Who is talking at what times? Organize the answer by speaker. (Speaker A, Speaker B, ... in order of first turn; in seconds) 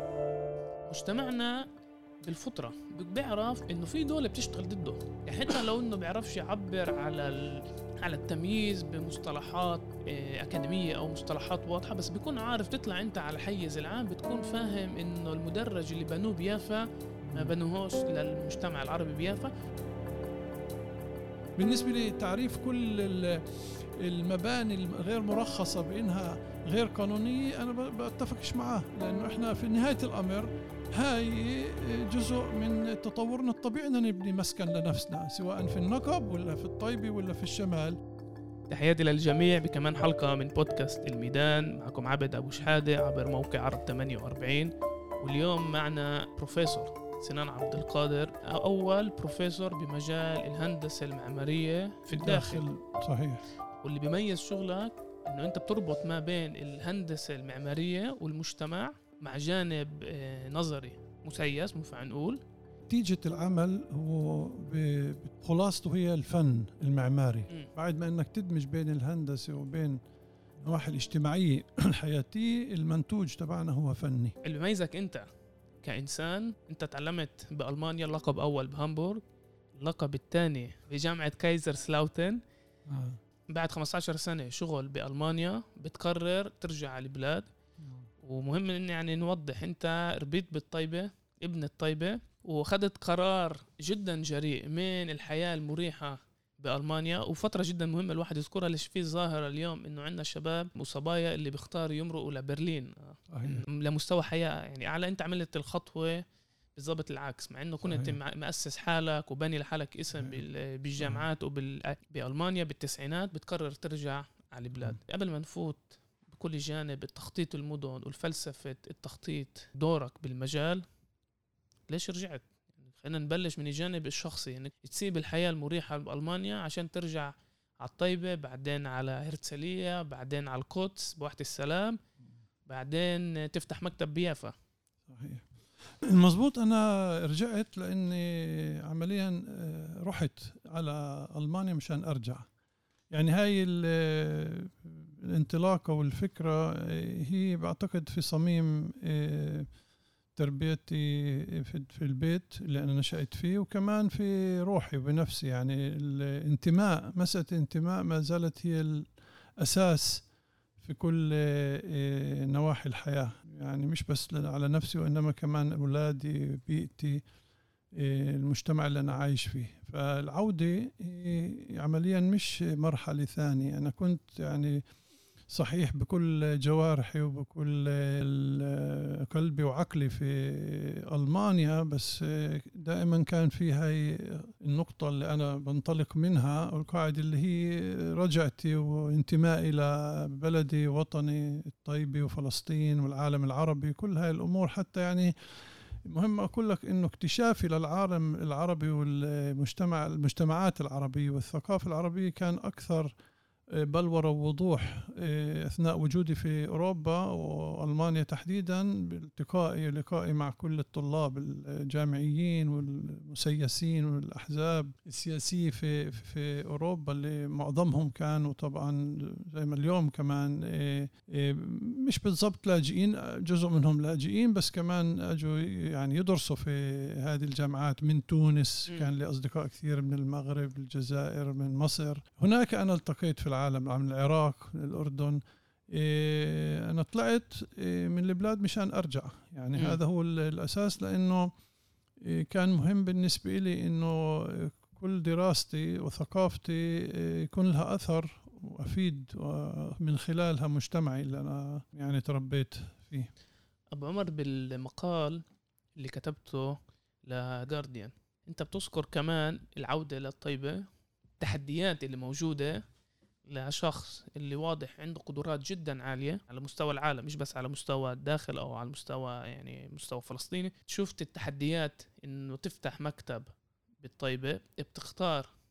Speaker A: 0.9-1.7, 2.2-19.5, 38.7-52.7, 53.8-62.4, 74.4-75.2, 75.8-79.2, 79.7-82.4, 83.5-87.5, 88.2-120.8, 121.9-132.0, 132.7-134.5, 253.9-255.4, 255.9-260.9, 261.4-262.8, 263.5-275.5
Speaker B: 17.2-17.5, 21.6-38.0, 52.1-53.4, 62.9-70.0, 70.6-74.4, 82.9-83.2, 103.3-103.6, 107.8-108.2, 135.1-135.4, 136.0-142.5, 143.1-149.7, 150.4-160.2, 160.8-167.2, 167.9-174.8, 175.5-195.3, 196.1-203.1, 203.7-241.5, 242.2-253.3